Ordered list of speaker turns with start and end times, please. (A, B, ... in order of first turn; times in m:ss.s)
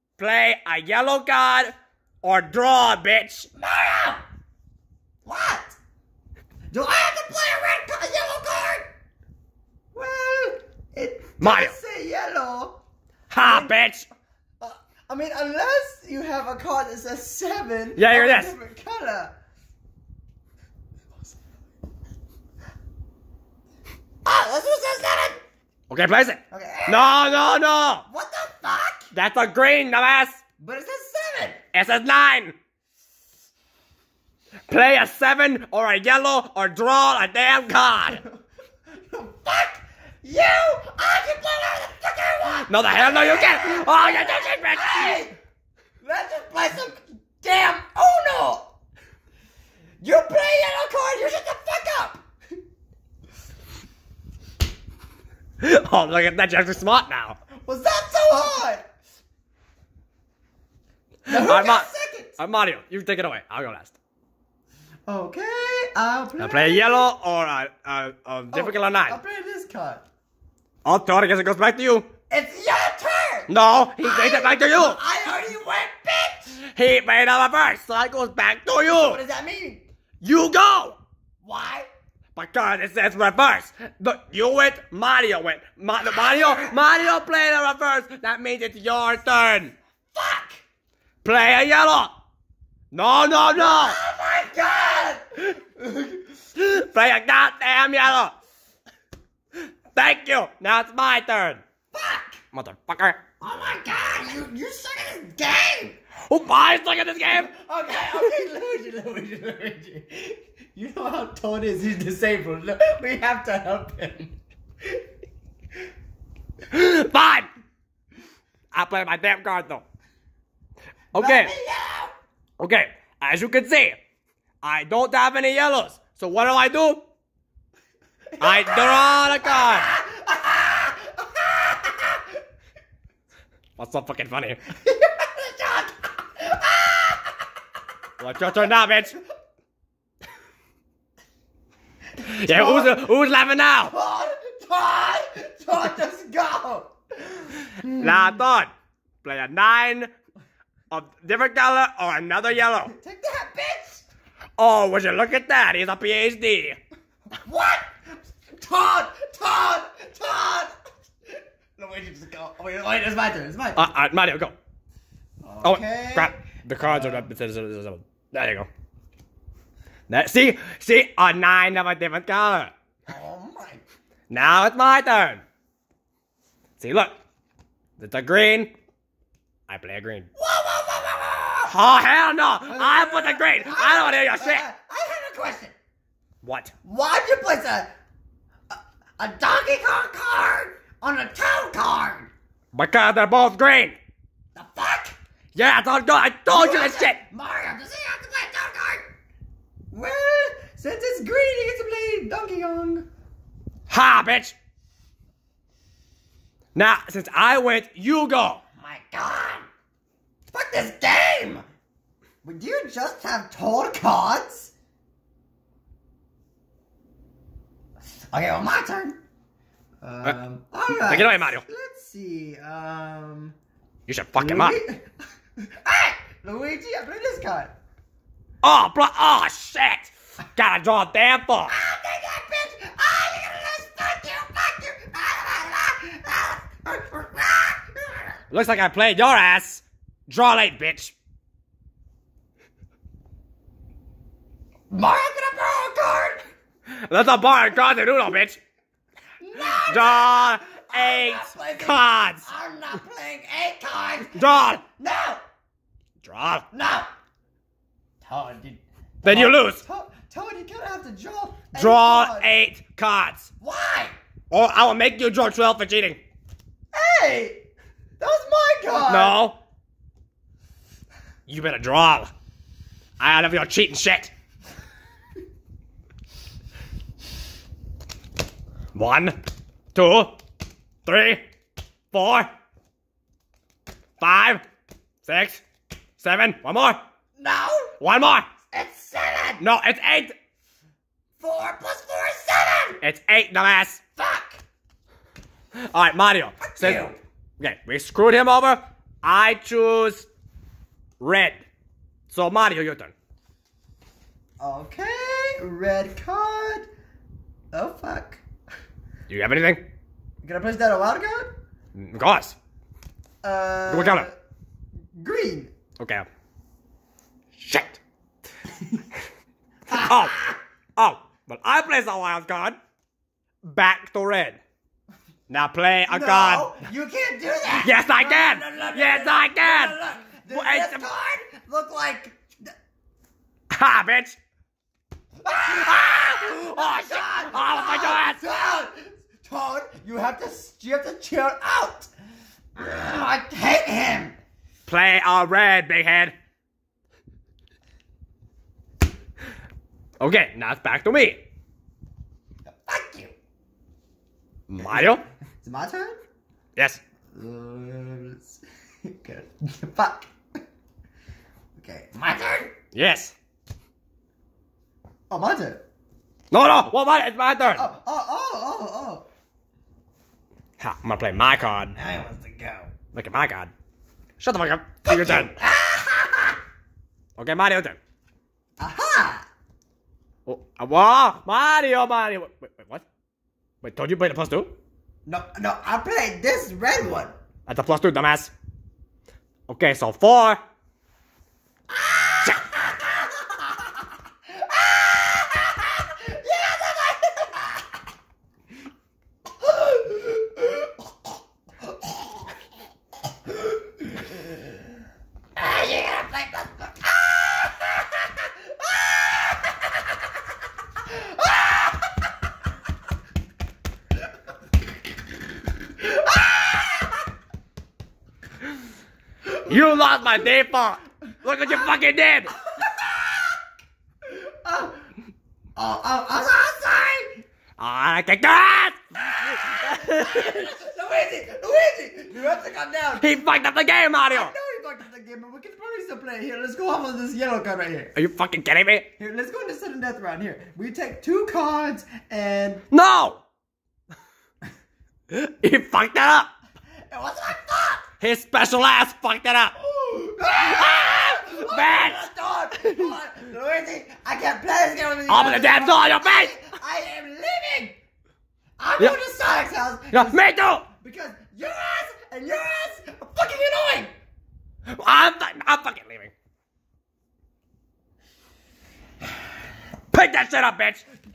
0:00.2-0:03.5 A
0:03.6-0:04.2 B
0:05.2-0:05.8 B
0:06.7-0:08.9 B
0:09.9-0:12.8 B
0:11.4-0:11.7 A
0:13.3-0:14.1 A
0:13.4-0:13.7 B
0:14.6-0:19.3 B
0:18.0-0:18.6 A
0:24.2-0:25.4 B
0:25.9-0:28.0 A
0:26.5-0:27.2 B
0:28.1-0:29.1 B
0:29.1-0:30.4 A
0:30.6-0:31.6 B
0:31.7-0:32.5 A
0:34.7-0:38.2 A
0:38.1-0:38.4 B
0:39.0-0:45.4 B
0:42.6-0:45.2 A
0:46.0-0:48.7 B
0:50.0-0:52.2 B
0:55.6-0:57.4 A
0:57.6-0:58.8 B
1:01.3-1:02.4 B
1:01.3-1:04.0 A
1:05.1-1:07.1 B
1:06.4-1:09.2 A
1:08.5-1:10.0 B
1:10.8-1:12.1 A
1:12.3-1:16.5 B
1:13.5-1:15.0 A
1:16.6-1:19.2 A
1:18.8-1:19.8 B
1:20.2-1:21.0 A
1:21.4-1:21.9 B
1:22.3-1:29.7 A
1:26.1-1:26.7 B
1:30.1-1:30.6 B
1:31.2-1:32.1 A
1:32.9-1:34.0 A
1:33.5-1:36.2 B
1:36.5-1:38.4 A
1:39.9-1:41.6 A
1:41.9-1:42.4 B
1:42.5-1:43.2 A
1:43.4-1:46.0 B
1:46.3-1:47.5 A
1:47.3-1:54.3 B
1:56.7-1:57.5 A
1:58.7-1:59.8 A
2:01.1-2:01.5 A
2:01.1-2:02.1 B
2:02.6-2:04.0 A
2:04.6-2:07.0 A
2:08.4-2:09.9 A
2:08.4-2:12.2 B
2:13.8-2:14.6 A
2:14.8-2:17.2 B
2:18.2-2:19.2 A
2:22.2-2:23.9 A
2:22.3-2:23.1 B
2:23.9-2:28.4 B
2:27.8-2:28.7 A
2:29.2-2:30.1 A
2:30.9-2:32.9 A
2:32.9-2:34.0 B
2:34.6-2:36.8 A
2:37.4-2:38.0 B
2:38.5-2:40.7 B
2:41.3-2:43.9 B
2:43.8-2:44.5 A
2:45.4-2:47.3 B
2:45.6-2:48.7 A
2:50.1-2:52.7 A
2:53.1-2:53.8 B
2:54.3-2:55.4 A
2:56.8-2:57.2 A
2:58.0-2:58.7 A
2:59.7-3:00.3 A
3:00.4-3:01.8 B
3:01.7-3:04.6 A
3:02.6-3:05.7 B
3:06.4-3:06.7 A
3:06.8-3:07.9 B
3:08.7-3:12.3 B
3:12.7-3:14.0 A
3:14.5-3:15.2 B
3:15.5-3:17.2 A
3:16.5-3:19.0 B
3:19.9-3:23.0 B
3:23.9-3:24.5 A
3:26.7-3:28.6 A
3:28.8-3:29.7 B
3:30.5-3:31.6 B
3:32.4-3:34.7 B
3:38.3-3:39.2 B
3:40.0-3:43.6 B
3:41.0-3:41.6 A
3:44.1-3:44.8 A
3:44.4-3:45.1 B
3:45.6-3:47.7 B
3:48.6-3:51.7 A
3:51.7-3:58.4 B
3:58.5-4:01.1 A
4:04.9-4:06.4 B
4:06.9-4:08.6 A
4:09.4-4:15.4 B
4:09.7-4:12.4 A
4:14.3-4:14.8 A
4:16.2-4:16.6 A
4:16.7-4:17.1 B
4:18.2-4:22.5 B
4:19.2-4:19.8 A
4:21.7-4:23.5 A
4:23.6-4:24.1 B
4:24.5-4:26.2 A
4:26.9-4:27.6 B
4:28.2-4:29.4 B
4:29.1-4:29.6 A
4:31.5-4:32.3 A
4:33.2-4:34.3 A
4:38.9-4:39.4 A
4:39.9-4:40.4 A
4:41.0-4:41.5 A
4:42.1-4:42.5 A
4:44.2-4:44.6 A
4:45.2-4:45.6 A
4:46.2-4:47.0 A
4:47.4-4:47.9 B
4:48.0-4:48.5 A
4:48.7-4:49.6 B
4:49.6-4:50.3 A
4:51.4-4:53.0 B
4:53.0-4:54.0 A
4:54.2-4:54.6 B
4:55.8-4:57.1 A
4:56.6-4:57.2 B
4:57.6-5:00.3 A
5:01.2-5:01.6 A
5:02.3-5:03.1 A
5:04.6-5:06.9 B
5:07.7-5:08.4 B
5:09.3-5:09.9 A
5:10.4-5:11.5 B
5:11.9-5:12.6 A
5:13.4-5:14.3 B
5:13.9-5:14.3 A
5:15.2-5:15.7 B
5:16.0-5:16.2 A
5:17.6-5:18.0 A
5:19.9-5:20.6 B
5:19.9-5:20.4 A
5:21.0-5:22.8 A
5:23.6-5:24.6 A
5:25.5-5:26.8 A
5:26.1-5:32.7 B
5:27.8-5:31.1 A
5:33.7-5:34.4 A
5:35.4-5:42.1 B
5:35.6-5:38.4 A
5:42.8-5:44.4 B
5:44.9-5:46.3 A
5:50.2-5:51.4 A
5:52.6-5:53.3 B
5:54.7-5:55.2 A
5:55.6-5:56.2 B
5:57.3-6:00.3 B
6:01.7-6:02.7 B
6:02.9-6:03.3 A
6:05.3-6:05.8 B
6:06.5-6:07.9 A
6:07.7-6:09.2 B
6:10.8-6:12.0 A
6:11.9-6:12.9 B
6:13.1-6:13.7 A
6:14.4-6:15.6 A
6:15.0-6:16.6 B
6:17.4-6:18.0 A
6:18.8-6:19.5 B
6:20.4-6:23.0 A
6:23.8-6:24.7 A
6:25.2-6:27.3 B
6:27.7-6:28.5 A
6:29.7-6:30.6 A
6:32.2-6:33.0 B
6:34.6-6:37.7 B
6:39.6-6:40.8 B
6:45.6-6:47.6 B
6:51.2-6:51.7 B
6:56.0-6:57.2 B
6:59.5-7:02.5 A
7:02.6-7:03.6 B
7:04.2-7:05.0 B
7:05.8-7:07.4 B
7:07.8-7:10.7 A
7:09.5-7:13.3 B
7:13.2-7:14.5 A
7:14.3-7:18.1 B
7:18.1-7:19.1 A
7:19.2-7:22.8 B
7:22.9-7:23.4 A
7:25.3-7:26.5 A
7:27.1-7:28.0 B
7:28.2-7:29.7 A
7:29.8-7:38.0 B
7:30.5-7:32.2 A
7:32.7-7:33.2 A
7:35.3-7:36.6 A
7:38.8-7:44.1 B
7:40.1-7:40.8 A
7:44.9-7:46.3 A
7:50.1-7:51.0 A